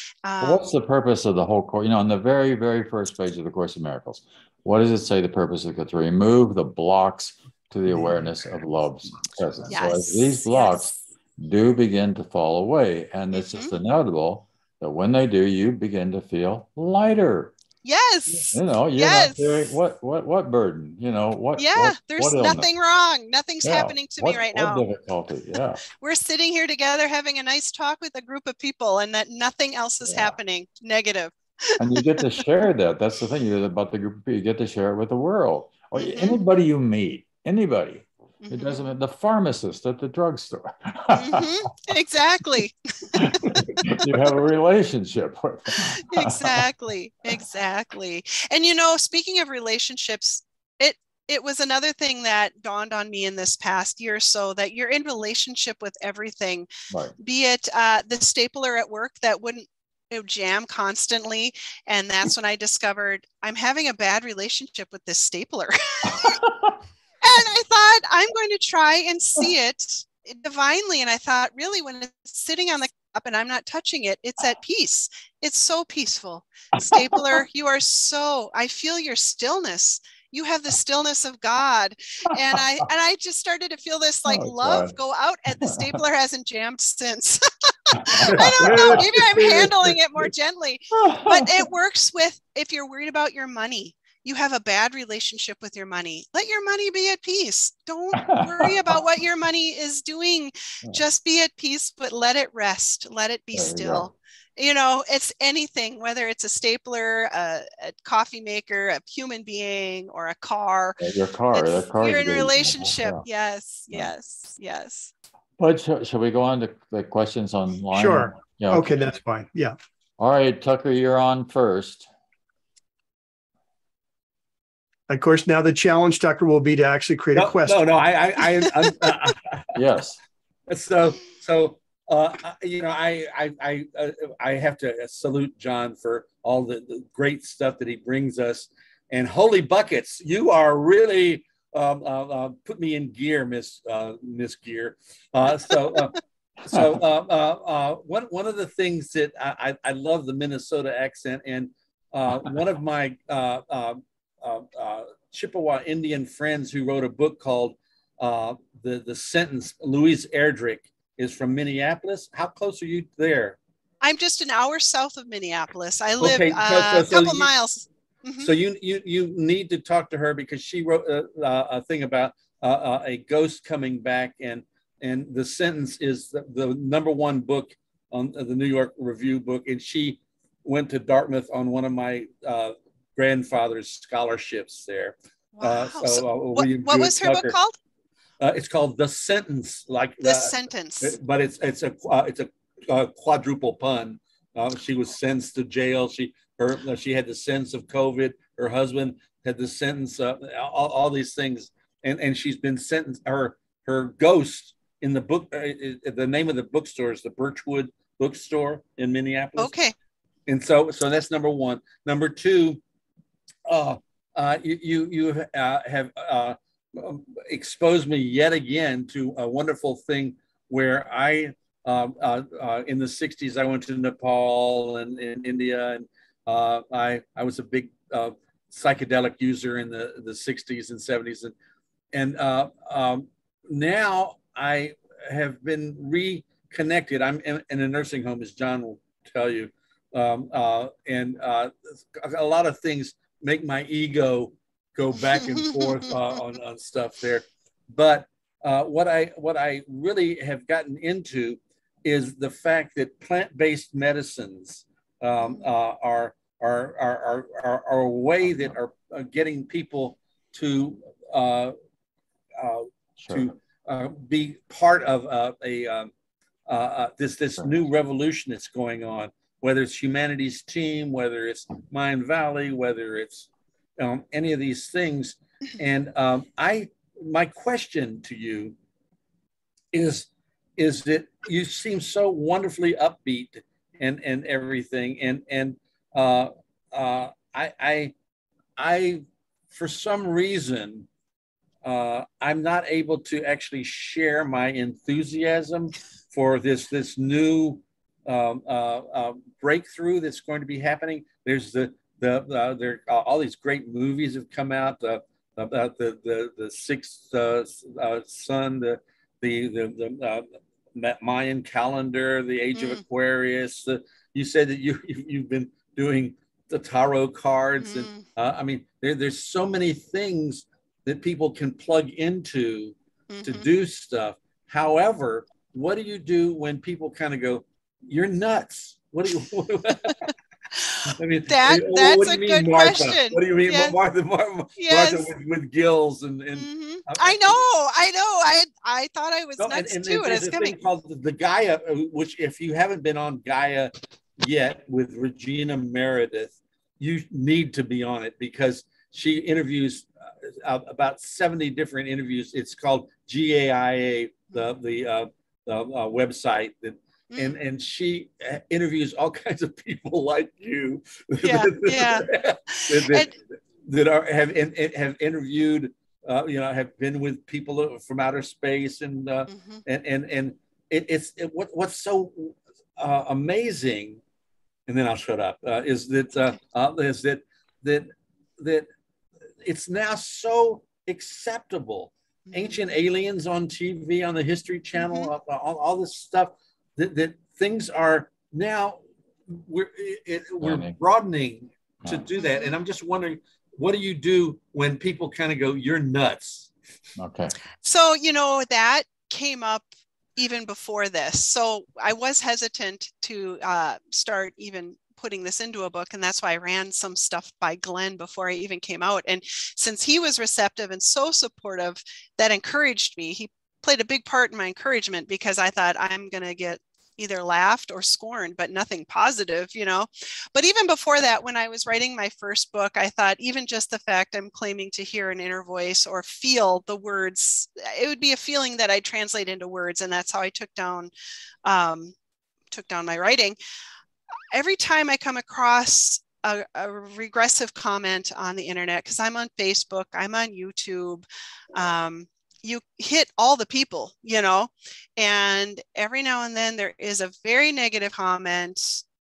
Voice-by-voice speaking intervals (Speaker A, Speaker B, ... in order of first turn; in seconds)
Speaker A: 0.2-0.7, 9.7-10.9, 13.3-13.7, 17.8-19.4, 21.6-24.8, 25.9-32.3, 35.9-36.4, 38.4-38.8, 41.1-43.5, 46.1-56.7, 57.2-66.4, 67.2-87.4, 87.9-111.0, 111.5-115.1, 164.0-168.5, 185.5-187.7, 190.2-191.2, 209.6-209.9, 312.7-313.0, 317.8-318.2, 323.3-323.7, 331.5-333.9, 334.8-335.3, 336.5-340.8, 357.3-357.6, 361.4-363.3, 369.5-369.8, 382.5-382.8, 385.0-385.3, 392.4-392.8, 397.8-399.9, 400.4-431.1, 431.6-432.1, 432.7-433.6, 434.5-449.0
Speaker B: 0.4-17.5, 18.3-22.7, 23.6-25.8, 30.0-30.4, 31.8-41.5, 43.1-46.6, 66.0-66.8, 76.8-77.3, 84.3-84.9, 85.6-85.9, 87.9-89.1, 90.9-91.6, 98.2-99.0, 103.5-104.1, 111.0-113.2, 115.6-119.1, 120.2-122.1, 129.7-130.2, 258.4-258.7, 263.2-263.5, 267.6-267.8, 390.6-390.9, 397.2-397.5
Speaker C: 88.8-89.6, 127.3-129.6, 130.7-163.6, 166.2-167.5, 168.4-187.6, 188.4-209.7, 210.5-212.8, 213.7-231.5, 232.1-261.7, 262.6-266.1, 266.7-278.8, 279.9-288.1, 288.8-291.1, 291.8-330.3, 331.1-337.6, 339.6-374.2, 374.9-378.9, 379.6-396.7
Speaker D: 117.9-119.7, 125.1-127.9